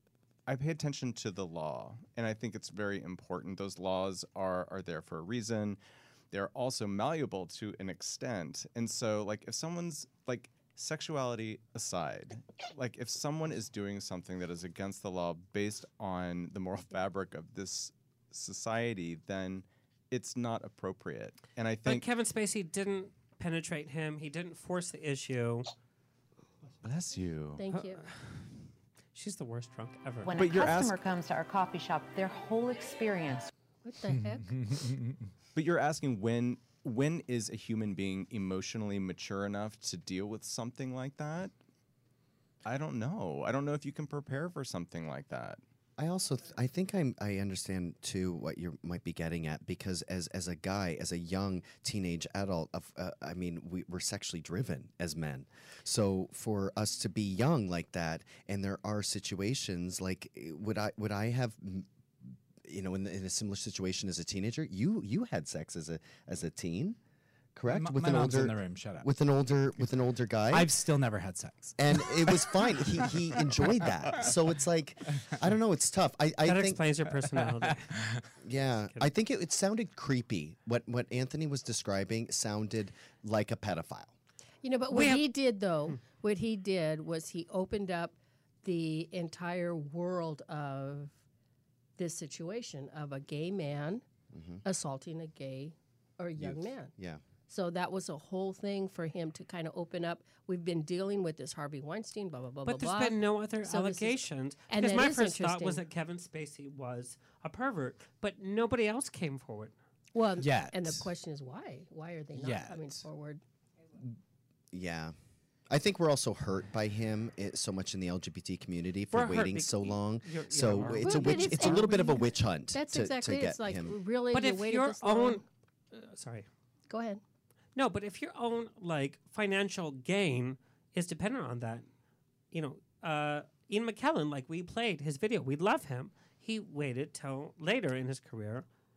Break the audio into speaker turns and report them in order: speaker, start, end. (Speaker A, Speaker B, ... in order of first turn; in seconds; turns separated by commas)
Speaker A: 0.5-5.8, Speaker A: 6.3-22.1, Speaker B: 21.8-25.7, Speaker A: 26.8-27.6, Speaker C: 27.6-28.0, Speaker B: 27.7-28.4, Speaker B: 29.1-30.3, Speaker D: 30.2-33.5, Speaker A: 30.3-31.0, Speaker C: 33.8-34.7, Speaker E: 34.1-35.2, Speaker A: 35.5-41.5, Speaker A: 42.6-45.6, Speaker F: 46.0-61.9, Speaker F: 62.6-67.0, Speaker F: 67.5-70.7, Speaker E: 67.7-69.1, Speaker E: 70.5-72.8, Speaker F: 71.8-76.8, Speaker B: 76.4-77.9, Speaker F: 78.4-84.1, Speaker C: 84.6-91.1, Speaker B: 84.9-85.2, Speaker C: 92.0-94.0, Speaker F: 94.3-94.6, Speaker C: 94.6-96.9, Speaker F: 96.3-97.2, Speaker C: 97.5-105.8, Speaker B: 102.6-109.7, Speaker C: 110.1-113.4, Speaker E: 110.4-111.1, Speaker E: 112.3-113.0, Speaker F: 114.7-115.1, Speaker F: 115.7-124.0, Speaker B: 119.1-121.8, Speaker C: 120.8-125.4, Speaker B: 124.3-126.5, Speaker C: 126.9-127.2, Speaker B: 127.8-131.8, Speaker B: 132.5-138.6